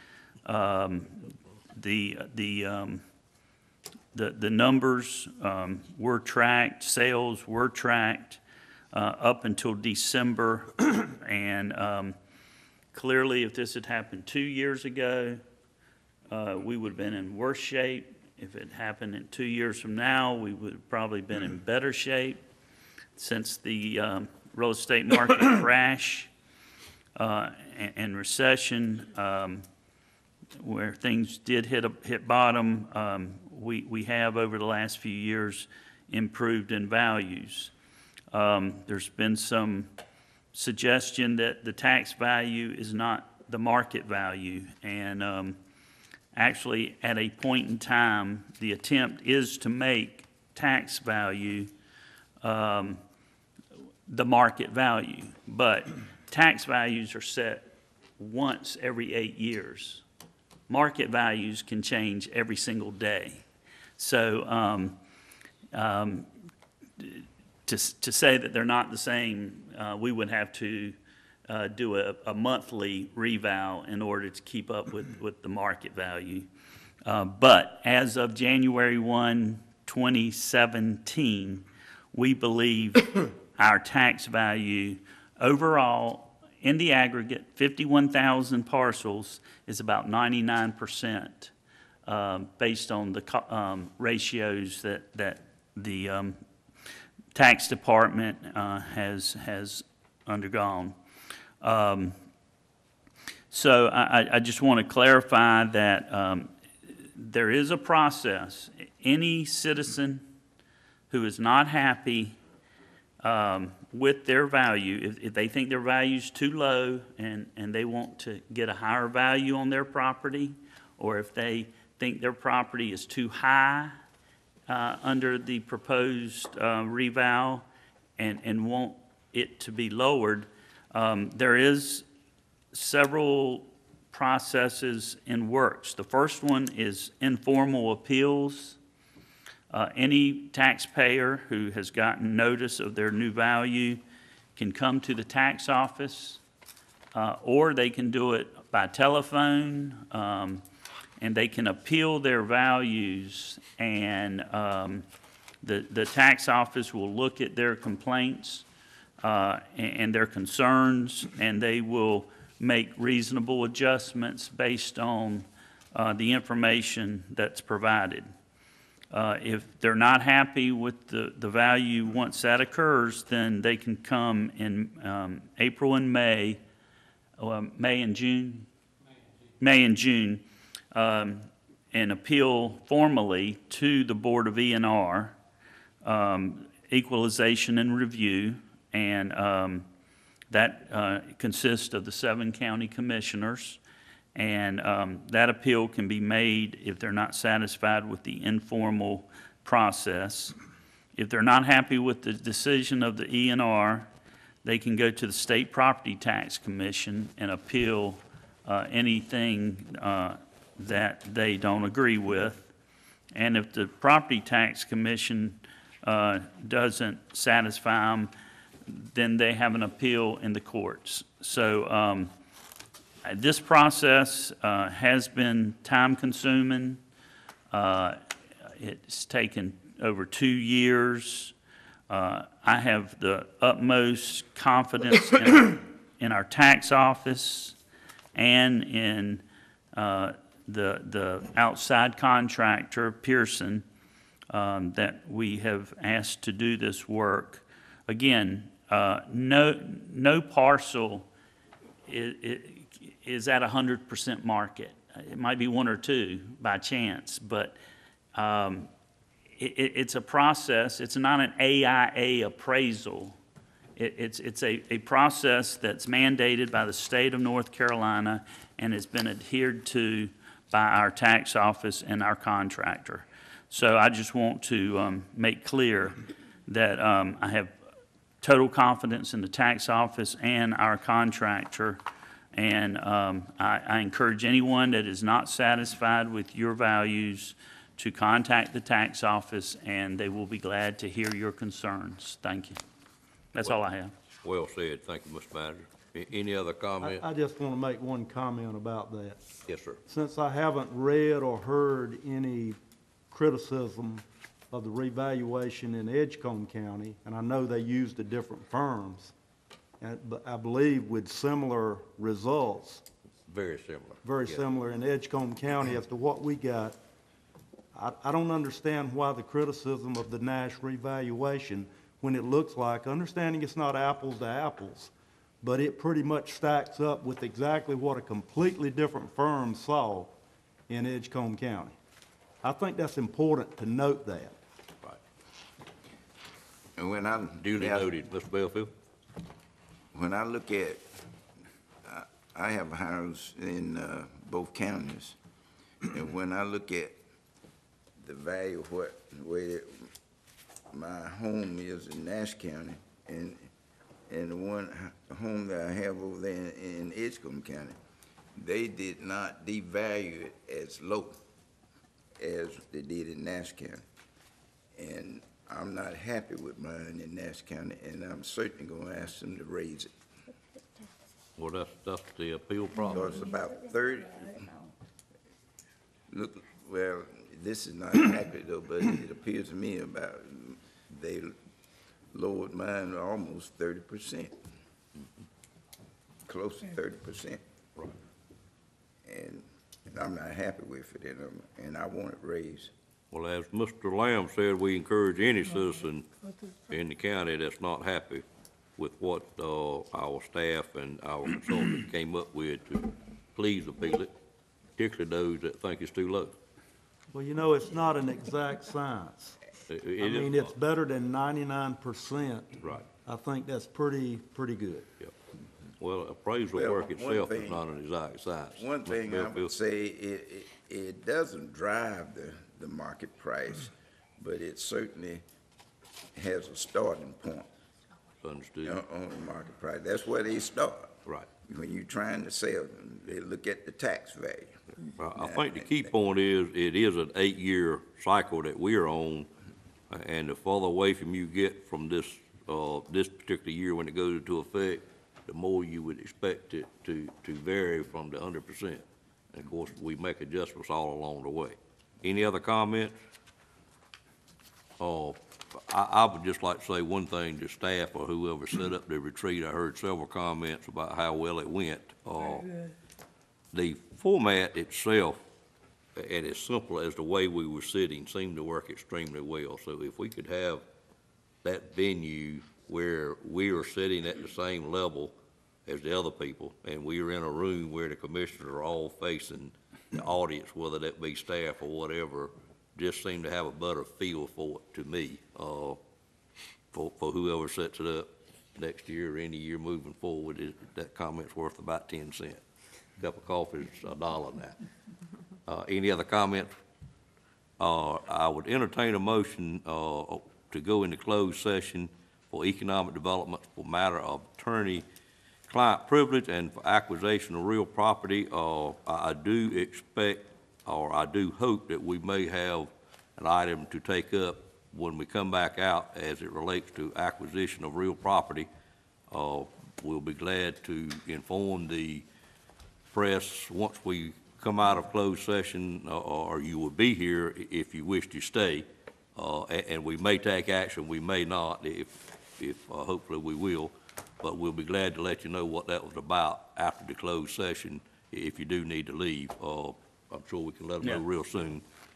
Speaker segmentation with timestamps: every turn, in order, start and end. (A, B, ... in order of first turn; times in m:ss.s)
0:00.4-0:03.0 A
0:04.1-0:08.4 A
0:08.9-0:12.2 A
0:12.9-0:15.4 A
0:16.3-0:22.4 A
0:23.2-0:26.3 A
0:27.2-0:29.6 A
0:30.6-0:37.7 A
0:38.3-0:39.9 A
0:40.5-0:45.6 A
0:46.3-0:51.7 A
0:52.4-0:53.0 A
0:54.1-1:00.0 A
1:00.7-1:03.4 A
1:04.0-1:05.0 A
1:05.7-1:06.3 A
1:07.0-1:11.0 A
1:11.5-1:16.5 A
1:17.0-1:31.5 A
1:32.0-1:36.4 A
1:37.3-1:40.9 A
1:41.6-1:42.2 A
1:43.5-1:50.3 A
1:51.1-1:52.4 A
1:53.2-2:04.0 A
2:04.7-2:07.6 A
2:08.2-2:12.0 A
2:12.7-2:18.8 A
2:19.7-2:24.0 A
2:24.6-2:26.4 A
2:27.1-2:30.6 A
2:31.2-2:35.0 A
2:35.6-2:38.6 A
2:39.2-2:48.3 A
2:49.1-2:56.6 A
2:57.4-2:58.7 A
2:59.6-3:05.4 A
3:06.0-3:09.8 A
3:10.5-3:13.8 A
3:14.3-3:20.6 A
3:21.2-3:24.1 A
3:24.6-3:32.7 A
3:33.3-3:38.3 A
3:38.9-3:42.3 A
3:43.2-3:47.0 A
3:47.7-3:51.5 A
3:52.1-3:57.8 A
3:58.3-3:59.4 A
3:59.9-4:03.8 A
4:04.5-4:11.3 A
4:12.1-4:17.8 A
4:18.3-4:18.9 A
4:19.6-4:23.4 A
4:24.0-4:37.8 A
4:38.4-4:42.0 A
4:42.5-4:52.8 A
4:53.5-4:54.1 A
4:54.4-4:57.2 B
4:57.0-4:59.5 C
4:59.7-5:00.0 B
5:00.0-5:02.8 C
5:03.3-5:09.3 C
5:10.0-5:13.0 C
5:13.5-5:14.6 B
5:14.2-5:17.0 C
5:17.9-5:30.3 C
5:30.9-5:32.0 C
5:32.6-5:34.6 C
5:37.0-5:38.1 D
5:37.6-5:38.9 B
5:40.1-5:41.1 D
5:42.0-5:45.4 D
5:46.1-5:47.2 D
5:48.2-5:50.1 D
5:50.9-5:53.7 D
5:54.3-5:58.0 D
5:58.6-6:01.4 D
6:02.4-6:04.0 D
6:05.0-6:10.1 D
6:11.6-6:13.4 B
6:13.1-6:14.6 D
6:16.3-6:21.5 D
6:22.3-6:24.5 D
6:26.5-6:27.6 D
6:29.2-6:32.9 D
6:33.3-6:36.3 B
6:36.9-6:38.4 B
6:39.0-6:44.3 B
6:45.0-6:46.6 B
6:47.3-6:49.6 C
6:49.9-6:50.7 B
6:50.2-6:55.1 C
6:52.8-6:53.0 B
6:56.0-6:59.7 B
6:56.7-6:57.8 D
6:58.8-7:05.4 D
7:06.3-7:07.7 D
7:08.4-7:09.0 B
7:08.8-7:11.1 D
7:11.7-7:16.1 D
7:15.2-7:19.5 B
7:20.1-7:33.2 B
7:35.0-7:42.7 B
7:43.7-7:45.4 B
7:46.2-7:50.8 B
7:51.6-7:55.3 B
7:55.8-8:06.0 B
8:06.9-8:12.6 B
8:13.2-8:14.8 B
8:15.7-8:16.7 B
8:17.8-8:25.0 B
8:25.7-8:38.7 B
8:39.3-8:42.2 B
8:43.1-9:01.8 B